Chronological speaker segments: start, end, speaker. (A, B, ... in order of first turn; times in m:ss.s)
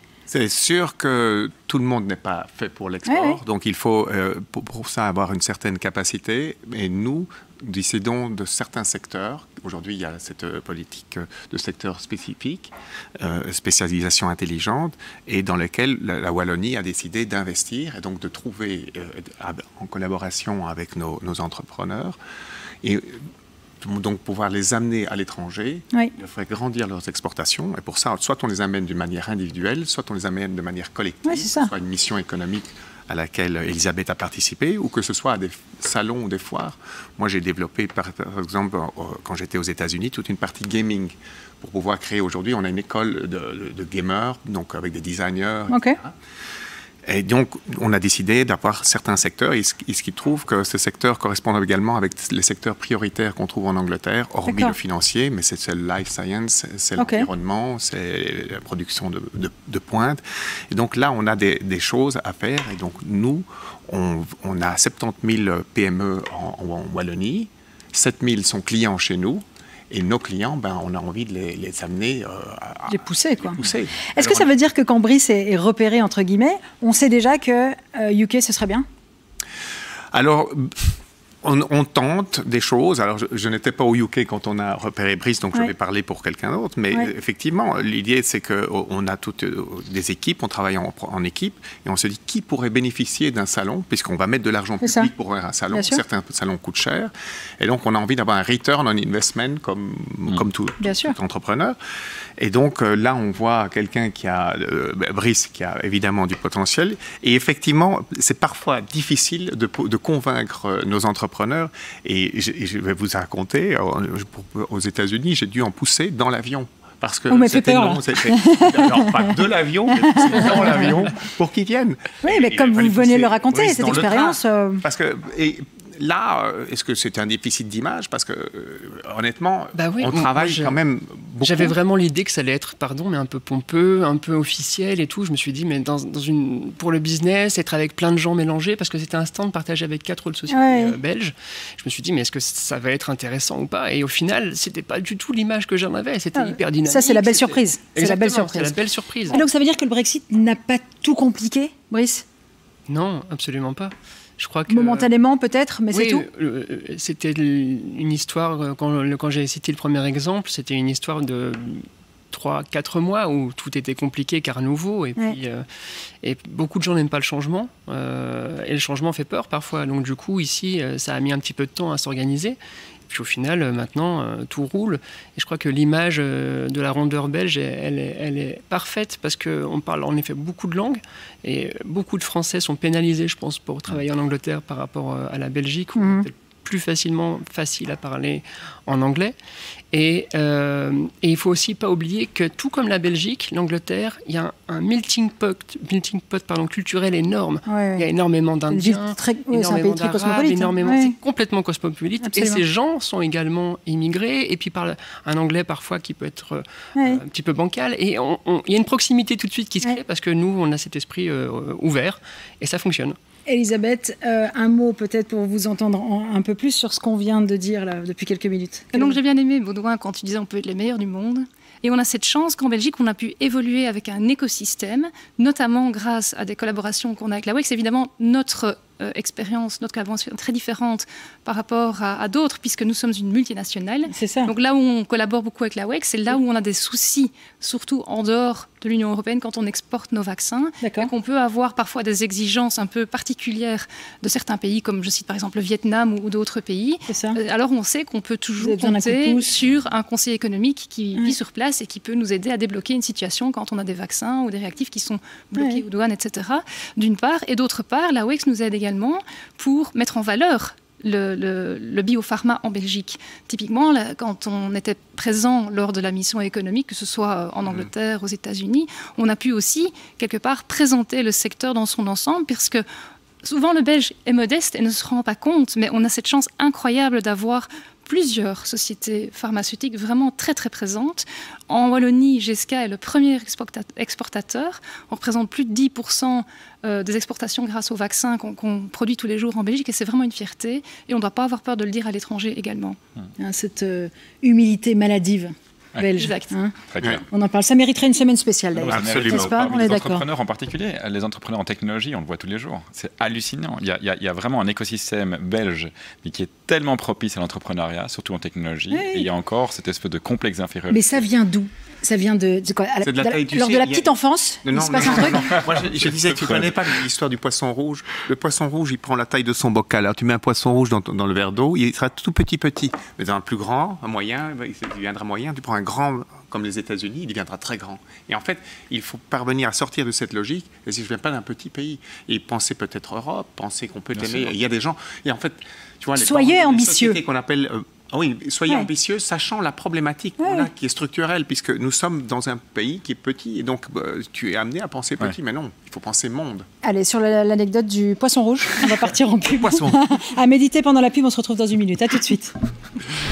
0:00.3-0:22.2 A
0:03.1-0:03.4 B
0:22.8-0:23.2 A
0:23.8-0:46.1 A
0:31.3-0:31.7 B
0:45.7-0:46.0 B
0:47.1-1:14.5 A
0:54.5-0:54.8 B
0:57.0-0:57.3 B
1:12.9-1:13.6 B
1:14.1-1:18.9 B
1:20.1-1:20.9 A
1:21.4-1:41.8 A
1:34.8-1:35.1 B
1:35.7-1:36.0 B
1:40.8-1:41.2 B
1:42.4-2:11.7 A
1:57.3-1:59.4 B
1:59.9-2:01.0 B
2:02.2-2:04.8 B
2:09.8-2:10.8 C
2:11.4-2:29.4 C
2:20.5-2:21.0 B
2:26.4-2:28.7 B
2:29.3-2:32.2 B
2:32.9-2:35.1 C
2:34.7-2:36.3 B
2:35.9-2:45.6 C
2:46.2-2:52.6 C
2:53.1-3:09.4 C
3:06.0-3:06.3 B
3:09.9-3:33.2 C
3:17.7-3:18.0 B
3:18.7-3:21.1 B
3:22.2-3:22.6 B
3:27.0-3:27.2 B
3:33.5-3:39.2 B
3:38.9-4:32.8 D
3:54.1-3:54.5 B
4:00.8-4:01.1 B
4:07.1-4:07.4 B
4:08.6-4:09.5 B
4:15.6-4:15.8 B
4:33.4-4:53.0 D
4:53.4-5:00.3 B
4:56.2-4:56.5 D
4:56.9-4:57.2 E
4:58.8-5:11.2 E
4:58.9-4:59.8 A
5:08.9-5:09.3 B
5:10.9-5:15.6 B
5:13.0-5:14.1 A
5:14.6-5:46.7 A
5:15.6-5:16.8 E
5:34.2-5:34.5 E
5:36.2-5:37.2 B
5:40.4-5:40.7 B
5:46.8-5:52.5 B
5:49.5-5:50.0 A